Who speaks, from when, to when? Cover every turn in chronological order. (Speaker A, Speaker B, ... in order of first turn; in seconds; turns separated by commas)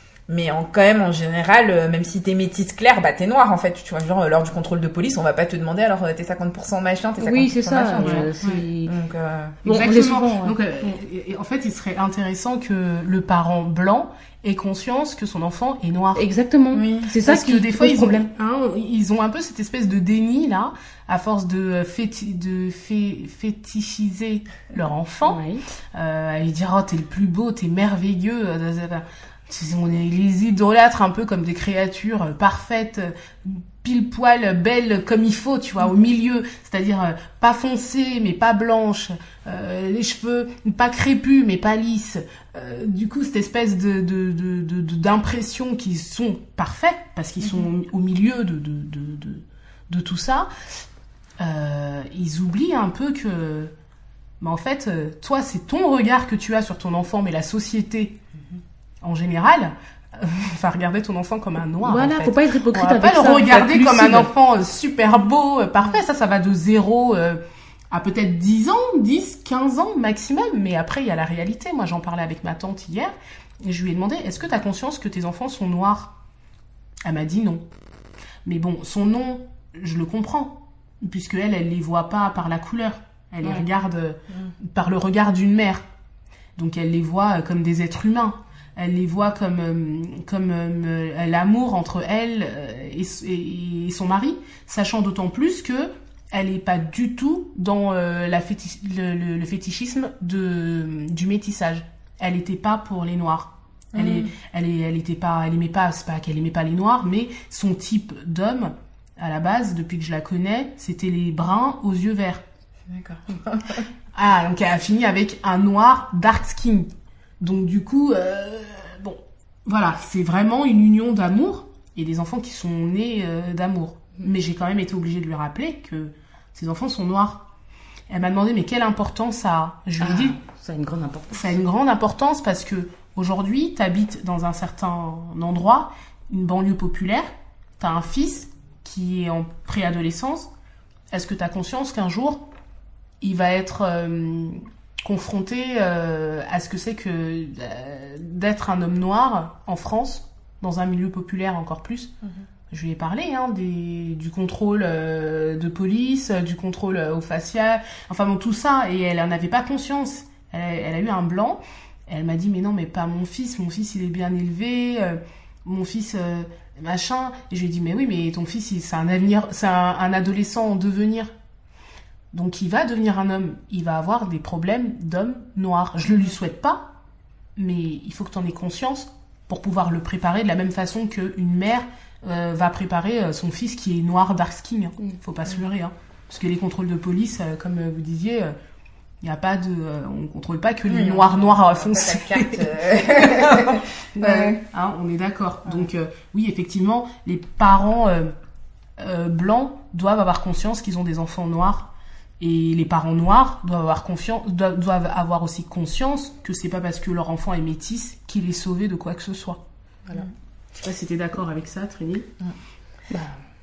Speaker A: 0.3-8.3, Speaker B: 7.2-8.9, Speaker C: 8.0-8.6, Speaker A: 8.8-9.6, Speaker B: 9.6-10.9, Speaker C: 9.6-16.2, Speaker B: 16.1-18.3, Speaker A: 16.7-17.1, Speaker C: 17.2-25.4, Speaker B: 25.2-25.6, Speaker C: 25.9-50.5, Speaker C: 51.4-53.7, Speaker C: 54.4-58.2, Speaker C: 59.0-67.4, Speaker B: 61.8-64.3, Speaker C: 67.9-76.1, Speaker C: 77.0-77.6, Speaker C: 78.4-85.8, Speaker C: 86.5-112.4, Speaker A: 103.9-104.3, Speaker A: 112.9-113.8, Speaker C: 114.1-116.9, Speaker C: 117.4-127.5, Speaker C: 128.1-130.4, Speaker B: 130.0-131.5, Speaker C: 131.3-140.5, Speaker C: 141.1-142.4, Speaker C: 143.2-152.1, Speaker C: 152.7-171.3, Speaker C: 172.3-176.9, Speaker C: 177.6-188.5, Speaker C: 189.2-198.3, Speaker A: 190.9-194.6, Speaker C: 199.0-209.6, Speaker C: 210.7-212.3, Speaker B: 213.1-213.4